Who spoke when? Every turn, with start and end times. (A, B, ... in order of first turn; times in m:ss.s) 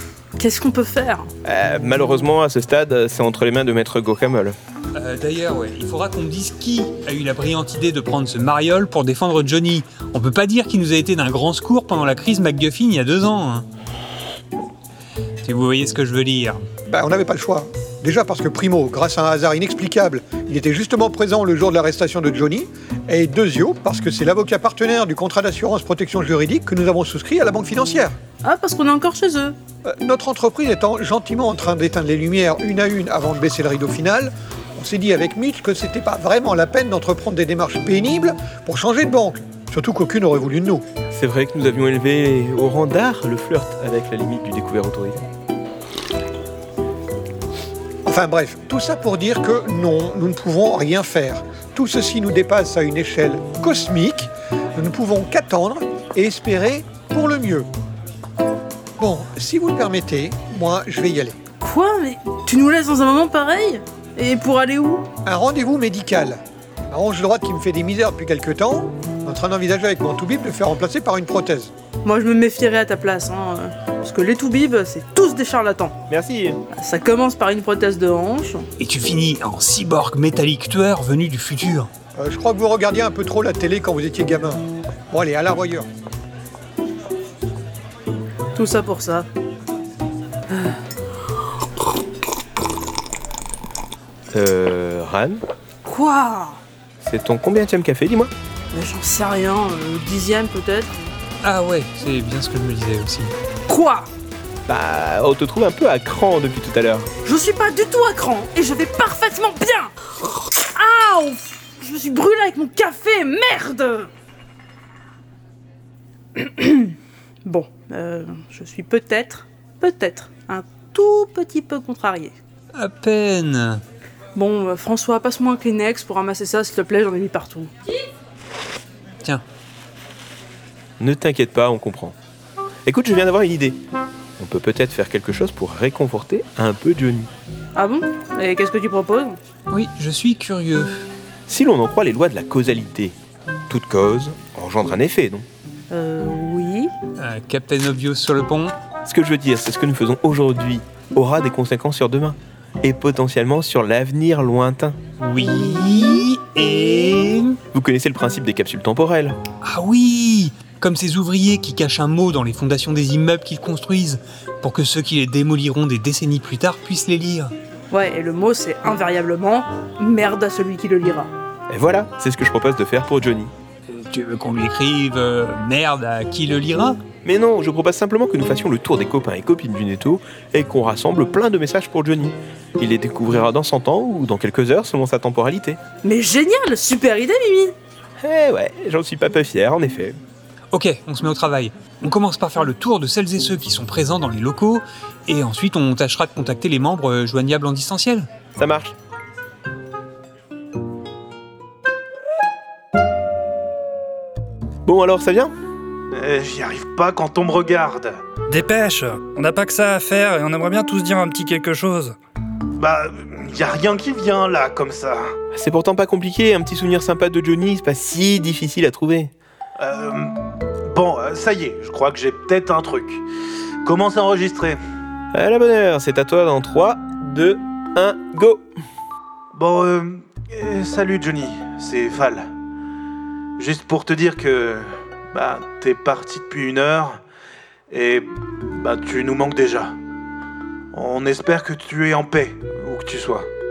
0:00.4-0:01.3 A
0:01.4-0:04.6 B
0:05.0-0:13.7 C
0:15.4-0:16.6 C
0:16.9-0:28.2 D
0:28.4-0:29.6 A
0:29.8-0:40.8 D
0:41.1-0:45.2 B
0:48.1-0:57.7 D
0:59.0-1:01.4 D
1:01.6-1:05.0 A
1:05.2-1:06.4 D
1:06.9-1:11.7 D
1:12.0-1:16.0 A
1:16.1-1:16.6 B
1:16.7-1:18.7 A
1:18.8-1:21.9 C
1:22.2-1:25.9 D
1:28.6-1:29.3 A
1:30.5-1:30.8 A
1:34.3-1:35.4 B
1:35.8-1:36.6 A
1:37.0-1:38.3 B
1:38.7-1:41.0 A
1:41.4-1:43.3 C
1:43.7-1:44.1 A
1:44.7-1:47.1 B
1:47.2-1:49.9 A
1:50.6-1:54.1 A
1:56.4-2:02.3 A
2:02.8-2:03.8 C
2:04.3-2:07.8 A
2:11.0-2:12.2 B
2:12.9-2:13.8 B
2:14.4-2:17.3 B
2:17.8-2:19.4 A
2:19.7-2:20.9 C
2:21.5-2:23.2 B
2:23.7-2:25.5 B
2:25.9-2:26.9 A
2:27.2-2:28.8 C
2:29.1-2:35.0 B
2:35.2-2:37.6 C
2:37.7-2:39.4 B
2:39.6-2:47.5 C
2:47.9-2:51.3 A
2:51.7-2:53.5 B
2:53.9-2:57.0 C
2:57.2-3:05.8 B
3:06.0-3:07.8 A
3:08.2-3:10.2 B
3:10.7-3:18.3 C
3:18.6-3:19.0 B
3:24.9-3:25.5 B
3:26.1-3:28.2 E
3:28.5-3:32.2 F
3:32.8-3:35.3 E
3:35.5-3:39.3 B
3:39.8-3:40.3 E
3:40.9-3:43.2 E
3:43.8-3:44.8 E
3:45.3-3:48.6 B
3:49.5-3:52.4 E
3:53.6-3:57.2 E
3:57.9-3:59.9 E
4:00.9-4:03.5 E